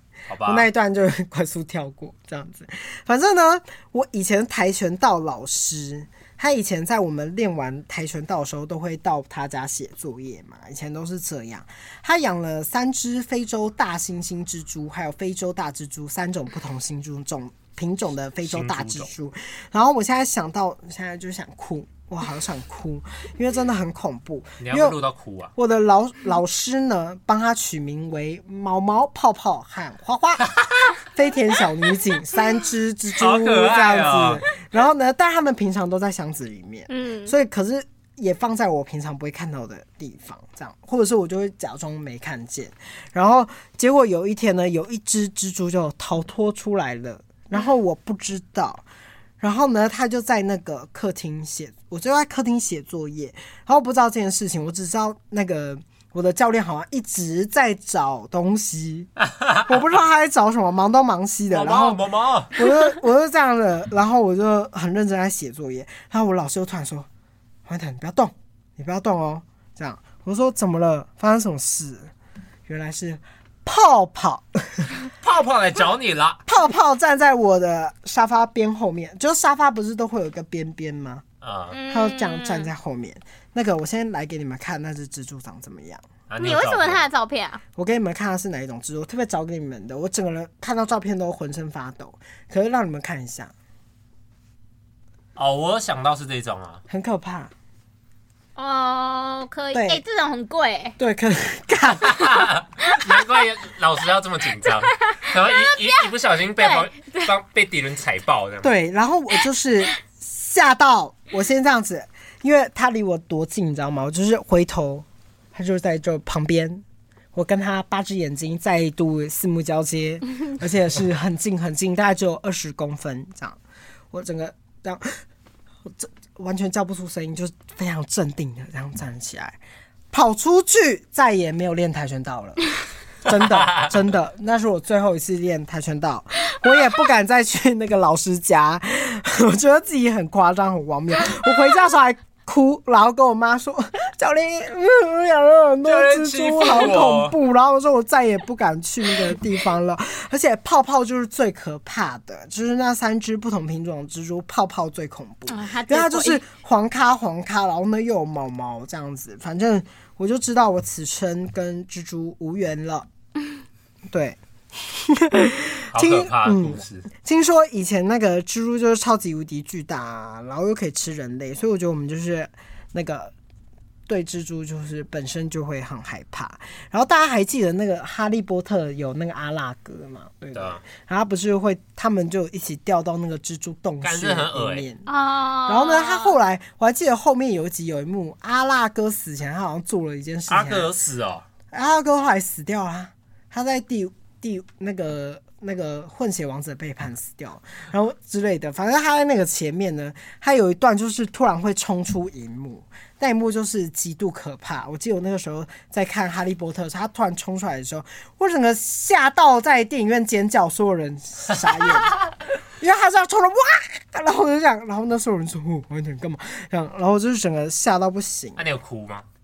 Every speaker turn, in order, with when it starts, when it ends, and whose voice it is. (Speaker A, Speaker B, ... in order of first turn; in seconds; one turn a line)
Speaker A: 0.3-0.7
Speaker B: 0.5-25.0
Speaker A: 18.4-19.1
Speaker A: 24.6-25.5
Speaker B: 25.6-30.5
Speaker A: 30.4-30.9
Speaker B: 31.1-48.8
Speaker A: 33.2-34.5
Speaker C: 36.9-37.4
Speaker B: 49.4-59.1
Speaker A: 59.2-59.7
Speaker B: 59.7-67.1
Speaker A: 61.5-62.5
Speaker B: 67.7-72.1
Speaker B: 72.7-74.9
Speaker A: 75.2-76.4
Speaker B: 76.5-81.2
Speaker A: 81.4-81.8
Speaker C: 81.7-82.7
Speaker B: 81.9-86.1
Speaker A: 86.3-87.0
Speaker C: 86.4-87.6
Speaker B: 87.8-93.5
Speaker A: 95.4-96.8
Speaker B: 96.9-97.5
Speaker C: 98.6-101.0
Speaker B: 99.7-100.0
Speaker B: 101.0-102.5
Speaker A: 102.0-108.7
Speaker C: 104.9-106.1
Speaker C: 106.6-107.3
Speaker B: 108.6-123.6
Speaker B: 124.1-125.2
Speaker B: 125.8-129.6
Speaker B: 130.1-132.6
Speaker B: 133.2-163.1
Speaker A: 145.8-147.4
Speaker C: 155.5-156.4
Speaker B: 164.1-173.3
Speaker A: 165.9-167.1
Speaker B: 174.1-185.1
Speaker A: 180.6-180.8
Speaker A: 184.0-184.9
Speaker C: 185.1-186.4
Speaker B: 185.7-190.9
Speaker A: 190.5-191.5
Speaker B: 191.7-212.2
Speaker B: 212.8-218.7
Speaker A: 218.6-219.3